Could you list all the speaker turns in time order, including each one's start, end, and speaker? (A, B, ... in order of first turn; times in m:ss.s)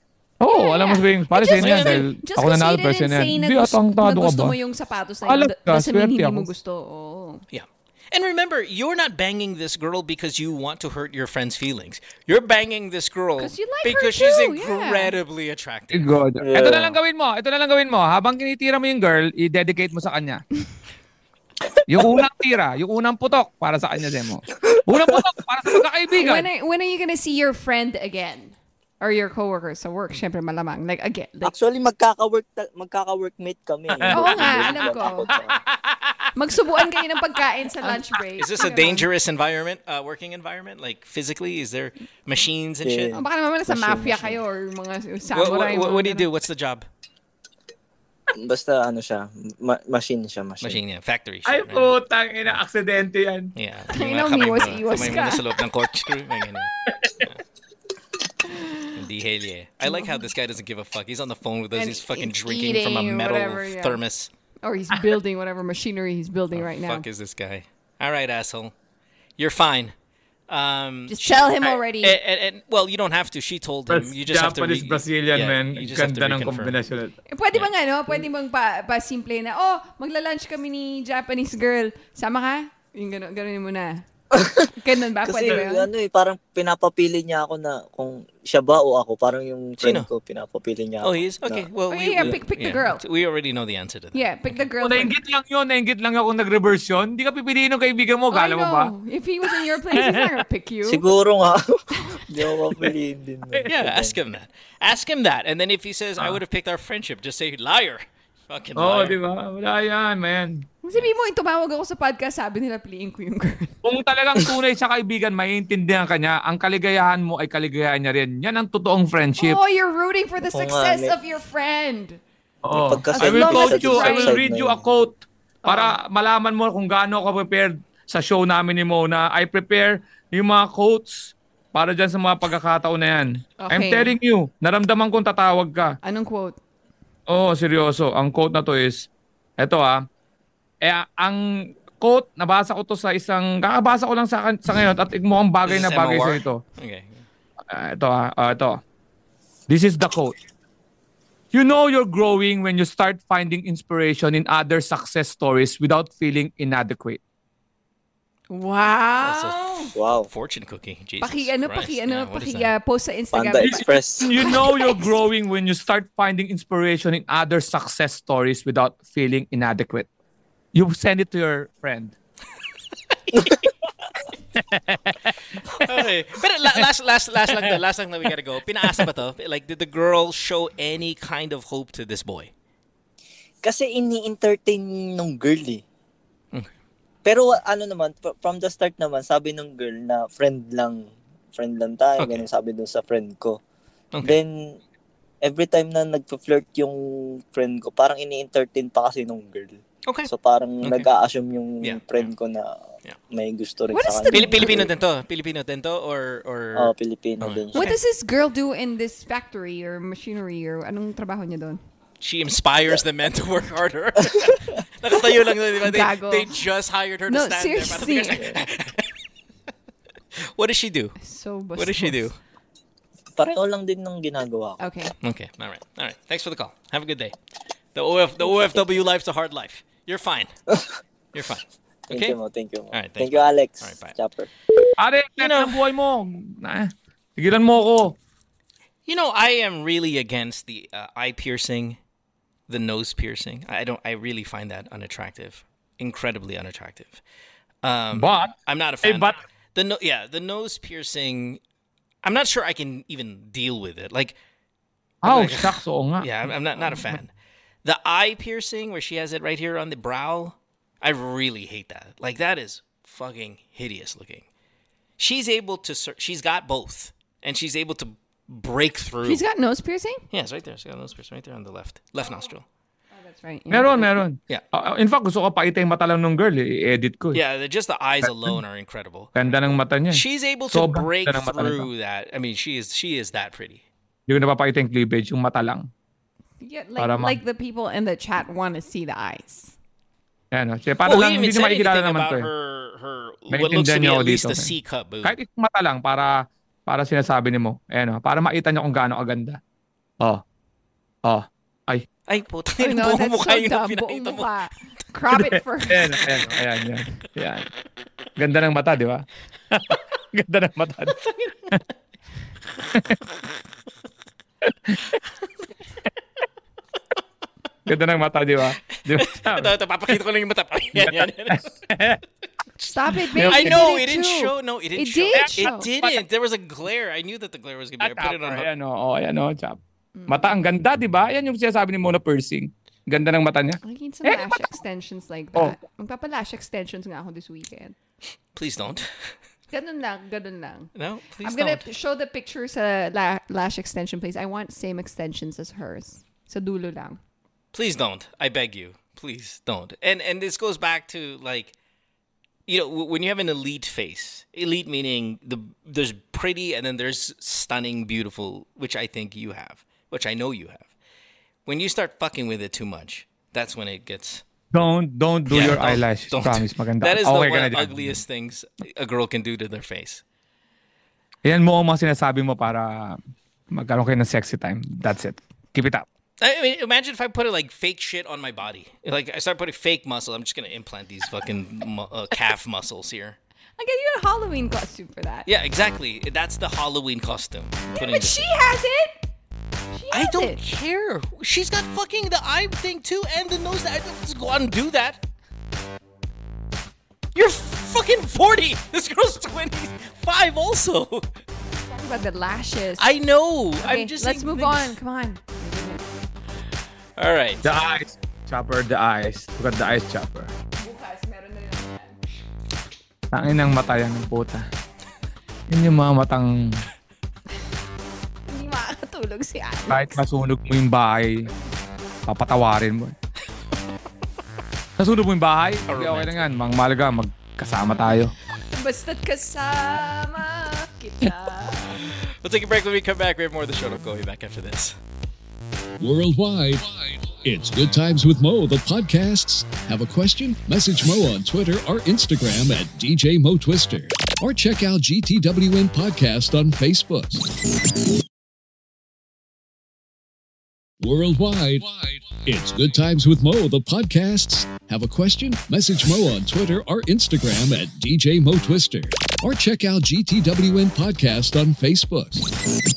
0:00.4-0:04.6 A
0:00.5-0:07.4 B
0:01.6-0:02.1 C
0:05.3-0:06.5 A
0:07.5-0:16.2 C
0:13.4-0:15.2 B
0:15.9-0:20.4 A
0:16.4-0:17.0 D
0:21.9-0:26.5 A
0:24.5-0:25.8 D
0:26.2-0:31.6 B
0:31.4-0:35.6 D
0:33.9-0:36.2 A
0:34.1-0:35.3 B
0:36.4-0:39.1 B
0:38.4-0:43.2 C
0:42.8-0:44.4 D
0:43.1-0:46.3 B
0:45.3-0:46.9 C
0:48.4-0:50.8 D
0:50.6-0:52.0 C
0:51.5-0:53.5 A
0:53.6-0:57.4 C
0:53.9-0:55.5 B
0:58.5-0:59.0 B
0:58.9-1:04.3 C
0:59.8-1:00.3 B
1:01.7-1:04.0 B
1:04.6-1:07.1 B
1:06.6-1:08.7 C
1:09.4-1:09.9 C
1:10.5-1:16.8 C
1:11.1-1:12.2 B
1:13.9-1:17.1 A
1:17.3-1:24.0 B
1:24.3-1:24.7 D
1:24.7-1:25.9 B
1:25.2-1:31.7 D
1:29.8-1:30.1 C
1:31.0-1:34.3 C
1:31.9-1:33.0 B
1:34.1-1:35.1 B
1:34.8-1:38.9 A
1:38.3-1:41.0 B
1:39.6-1:40.3 A
1:40.9-1:44.2 D
1:42.0-1:42.3 B
1:43.7-1:49.2 C
1:48.8-1:50.7 A
1:50.8-1:53.8 B
1:53.8-1:59.6 A
1:59.4-2:02.2 B
2:00.5-2:01.2 D
2:02.6-2:16.0 A
2:02.7-2:04.8 D
2:03.1-2:04.4 B
2:05.6-2:06.0 B
2:13.6-2:14.2 B
2:16.0-2:16.6 B
2:17.3-2:20.1 A
2:20.8-2:21.5 A
2:22.0-2:26.6 A
2:25.6-2:27.3 C
2:27.7-2:28.8 A
2:29.7-2:30.4 A
2:31.5-2:37.2 A
2:38.5-2:40.0 B
2:39.2-2:42.7 C
2:40.0-2:40.3 D
2:41.2-2:45.2 B
2:43.3-2:44.4 D
2:43.6-2:50.1 A
2:50.7-2:52.2 A
2:53.1-2:53.7 C
2:54.6-2:55.9 A
2:55.7-3:02.5 C
2:57.5-2:57.8 A
3:03.6-3:05.8 D
3:07.2-3:13.6 D
3:12.2-3:12.5 C
3:14.1-3:14.4 C
3:14.2-3:14.8 D
3:15.4-3:24.9 D
3:20.8-3:21.1 C
3:21.8-3:22.3 C
3:23.9-3:24.9 B
3:24.3-3:27.8 C
3:26.8-3:28.0 D
3:27.8-3:31.8 B
3:32.2-3:39.1 C
3:35.8-3:36.6 B
3:37.3-3:38.5 B
3:40.6-3:41.2 C
3:41.2-3:42.2 B
3:41.8-3:42.4 C
3:43.4-3:44.8 D
3:44.8-3:45.2 B
3:45.2-3:47.4 C
3:48.0-3:50.5 C
3:48.4-3:48.8 D
3:51.3-3:52.4 C
3:52.1-3:54.5 D
3:52.9-3:54.2 C
3:55.0-3:58.2 A
3:55.4-3:55.8 C
3:59.1-4:02.0 C
4:02.7-4:07.2 C
4:07.8-4:11.6 C
4:08.1-4:09.4 A
4:12.2-4:14.4 C
4:15.2-4:17.2 A
4:15.2-4:17.3 C
4:17.8-4:24.5 C
4:25.2-4:29.4 C
4:29.2-4:30.2 B
4:30.3-4:32.6 C
4:32.2-4:32.5 B
4:33.1-4:34.2 B
4:33.7-4:37.4 A
4:37.3-4:43.8 C
4:38.2-4:38.6 A
4:39.4-4:41.9 A
4:44.3-4:45.9 A
4:46.6-4:49.7 B
4:47.0-4:47.4 A
4:50.5-4:52.5 A
4:51.0-4:55.4 C
4:53.5-4:54.7 A
4:55.2-4:59.6 A
5:01.2-5:02.1 A
5:02.3-5:04.5 C
5:02.8-5:06.3 B
5:05.3-5:07.7 A
5:06.3-5:06.9 C
5:08.4-5:11.2 A
5:11.2-5:11.8 C
5:14.7-5:15.1 A
5:17.9-5:19.7 A
5:18.9-5:21.7 C
5:21.0-5:22.2 A
5:22.8-5:28.7 C
5:22.9-5:25.9 B
5:23.3-5:23.8 A
5:25.4-5:26.2 A
5:28.0-5:34.7 A
5:30.2-5:30.5 B
5:33.8-5:38.0 B
5:38.6-5:39.4 C
5:39.7-5:40.9 B
5:41.0-5:41.8 C
5:41.4-5:47.2 B
5:47.7-5:51.8 C
5:52.7-6:00.9 C
6:01.7-6:04.4 C
6:04.7-6:08.2 A
6:05.5-6:10.2 C
6:11.4-6:13.2 A
6:13.7-6:16.1 A
6:16.4-6:23.4 C
6:23.8-6:25.5 B
6:25.5-6:28.5 C
6:27.9-6:29.2 B
6:29.9-6:30.6 B
6:30.1-6:35.2 C
6:37.4-6:41.3 C
6:41.9-6:43.1 B
6:43.0-6:45.0 C
6:43.8-6:46.0 B
6:47.2-6:47.7 C
6:47.6-6:50.5 A
6:50.8-6:52.2 B
6:53.3-6:54.7 A
6:55.7-6:56.8 A
6:58.5-7:00.2 B
6:59.9-7:01.5 A
7:02.3-7:03.2 A
7:05.0-7:08.3 A
7:05.9-7:06.5 C
7:08.7-7:12.1 B
7:12.1-7:15.0 C
7:16.0-7:27.5 E
7:31.0-7:42.5 E